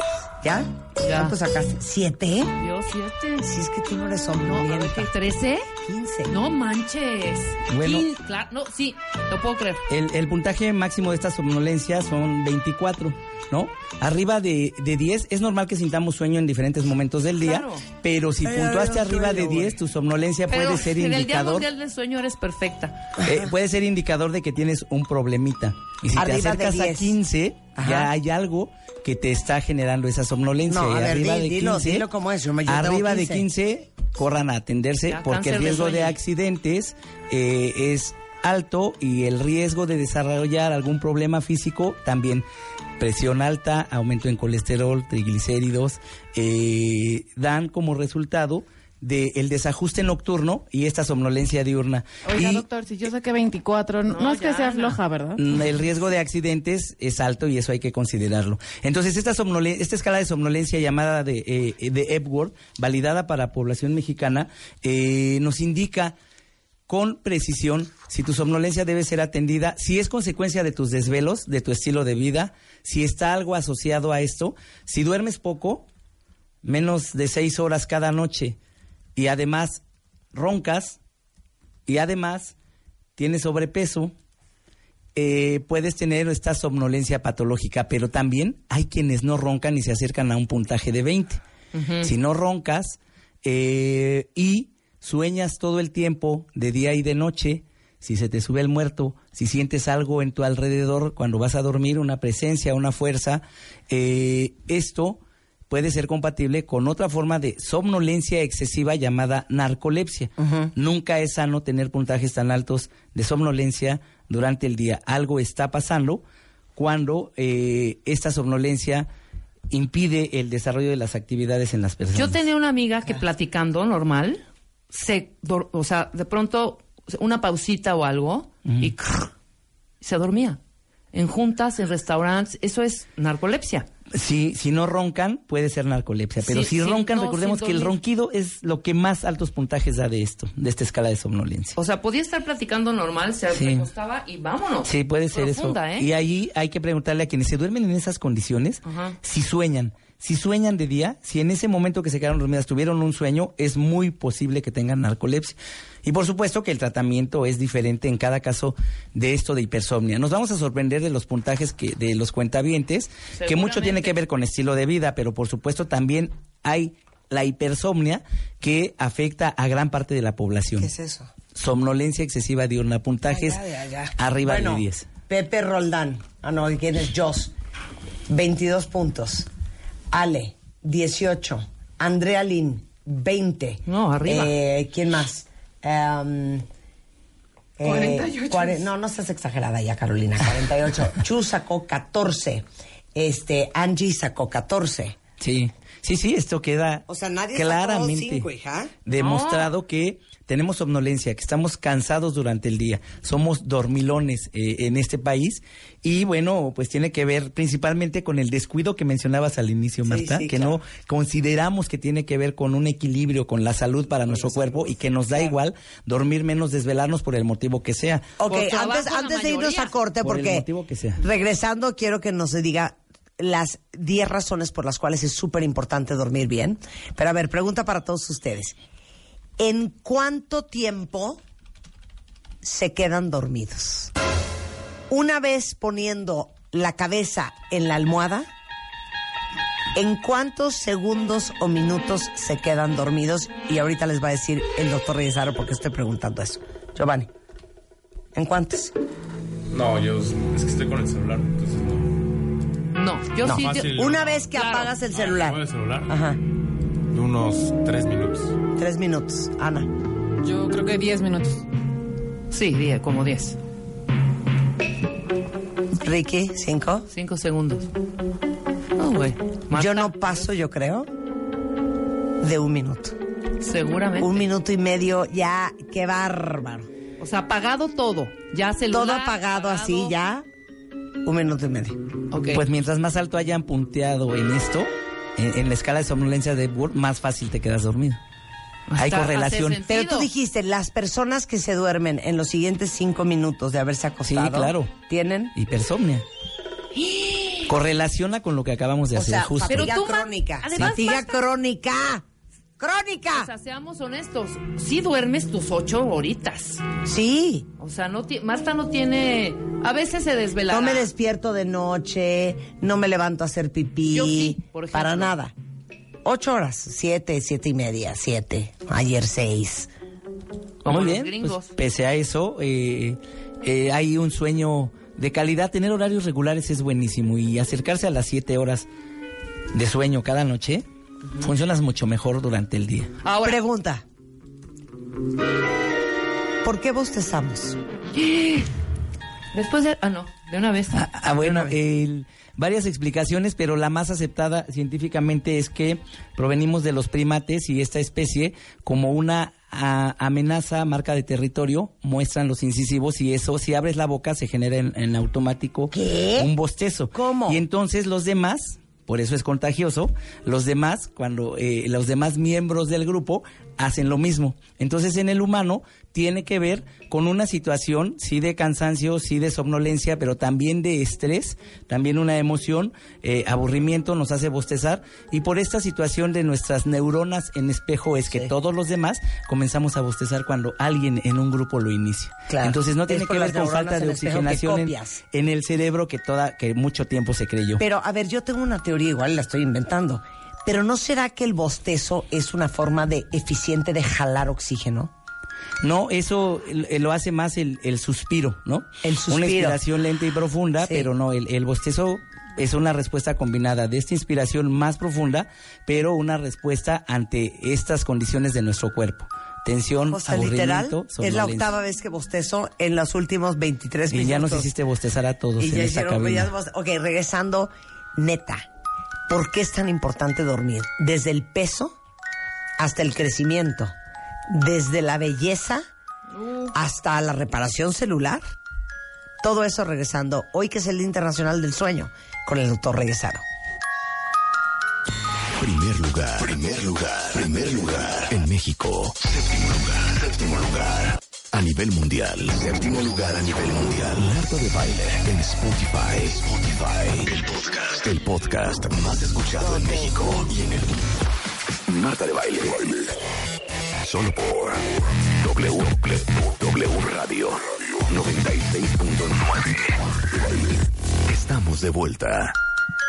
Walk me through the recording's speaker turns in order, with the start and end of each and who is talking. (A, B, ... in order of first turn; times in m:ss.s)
0:00.4-0:02.5 A
0:01.0-0:01.4 B
0:02.6-0:03.5 B
0:03.4-0:05.1 A
0:04.4-0:05.7 B
0:05.8-0:06.3 A
0:06.3-0:09.8 B
0:07.7-0:08.1 C
0:09.9-0:21.6 C
0:17.4-0:17.8 B
0:18.4-0:19.8 A
0:20.5-0:23.0 B
0:23.2-0:23.5 A
0:23.2-0:32.0 C
0:26.1-0:27.2 A
0:27.8-0:28.1 A
0:30.7-0:33.4 A
0:32.7-0:42.4 C
0:35.1-0:36.2 B
0:43.0-0:52.6 C
0:52.2-0:55.4 D
0:54.1-0:55.0 B
0:55.4-1:06.1 C
1:06.9-1:15.8 C
1:16.6-1:18.6 C
1:19.2-1:19.8 C
1:20.3-1:21.0 C
1:21.9-1:22.5 C
1:23.2-1:24.1 C
1:25.2-1:31.4 C
1:31.7-1:32.1 B
1:32.0-1:56.2 C
1:50.4-1:50.7 A
1:56.8-1:59.1 C
1:59.7-2:02.4 C
2:02.1-2:04.4 B
2:04.9-2:09.3 B
2:08.6-2:08.9 C
2:10.0-2:10.6 B
2:11.1-2:13.9 B
2:14.1-2:21.8 C
2:16.4-2:18.0 B
2:21.8-2:26.1 B
2:23.5-2:23.9 C
2:24.8-2:50.9 C
2:28.8-2:29.2 B
2:43.4-2:44.2 B
2:50.8-2:51.3 A
2:51.5-2:53.6 C
2:53.2-2:57.5 A
2:54.2-2:55.0 C
2:58.3-2:59.5 A
3:00.1-3:06.6 A
3:03.9-3:04.5 B
3:07.8-3:15.2 A
3:07.9-3:08.8 D
3:15.4-3:18.5 C
3:17.1-3:18.9 A
3:19.0-3:38.4 C
3:19.1-3:19.7 B
3:30.1-3:30.8 A
3:34.3-3:35.5 A
3:38.4-3:40.7 A
3:38.4-3:39.9 B
3:40.2-3:41.2 C
3:41.2-3:48.8 A
3:49.6-3:51.4 A
3:52.6-3:54.1 A
3:55.1-3:58.5 A
3:59.9-4:07.3 A
4:08.3-4:08.9 A
4:09.7-4:12.1 E
4:12.9-4:13.9 B
4:13.4-4:16.4 A
4:13.4-4:14.5 E
4:14.5-4:15.0 B
4:15.1-4:16.1 E
4:17.1-4:18.6 E
4:18.8-4:19.9 A
4:20.4-4:21.6 D
4:22.5-4:23.6 B
4:26.0-4:27.1 A
4:27.1-4:27.9 B
4:29.0-4:30.4 B
4:29.7-4:31.1 A
4:32.4-4:33.2 A
4:33.6-4:34.4 B
4:34.2-4:36.9 A
4:37.2-4:40.1 B
4:38.9-4:40.5 A
4:41.2-4:42.0 A
4:42.3-4:42.6 B
4:42.5-4:48.2 C
4:48.9-4:50.3 B
4:49.0-4:49.8 C
4:49.8-4:55.5 A
4:54.2-4:54.9 C
4:55.5-4:56.2 C
4:57.7-4:59.9 C
4:59.1-5:02.2 A
4:59.7-5:01.4 B
5:02.8-5:03.5 A
5:03.3-5:06.8 B
5:07.0-5:07.7 A
5:07.8-5:11.1 B
5:10.7-5:15.5 A
5:14.1-5:15.3 B
5:16.2-5:19.9 A
5:20.8-5:21.7 B
5:20.8-5:28.9 C
5:29.7-5:30.8 C
5:31.4-5:33.1 C
5:33.2-5:33.6 B
5:33.4-5:34.0 A
5:36.6-5:37.8 A
5:38.1-5:38.7 B
5:39.5-5:41.0 B
5:40.9-6:27.8 C
5:41.4-5:41.7 A
5:55.9-5:56.5 A
5:57.1-5:57.6 A
6:22.5-6:25.2 A
6:27.8-6:35.1 A
6:35.8-6:51.7 C
6:39.0-6:39.8 A
6:40.8-6:41.1 A
6:50.1-6:54.7 A
6:54.1-6:56.5 C
6:55.6-6:58.7 A
6:59.3-7:02.0 A
7:02.8-7:04.0 A
7:04.5-7:05.8 A
7:06.3-7:06.7 B
7:06.7-7:08.4 A
7:09.4-7:13.4 A
7:15.5-7:31.0 F
7:31.9-7:33.1 F
7:34.0-7:40.7 F
7:41.3-7:42.6 F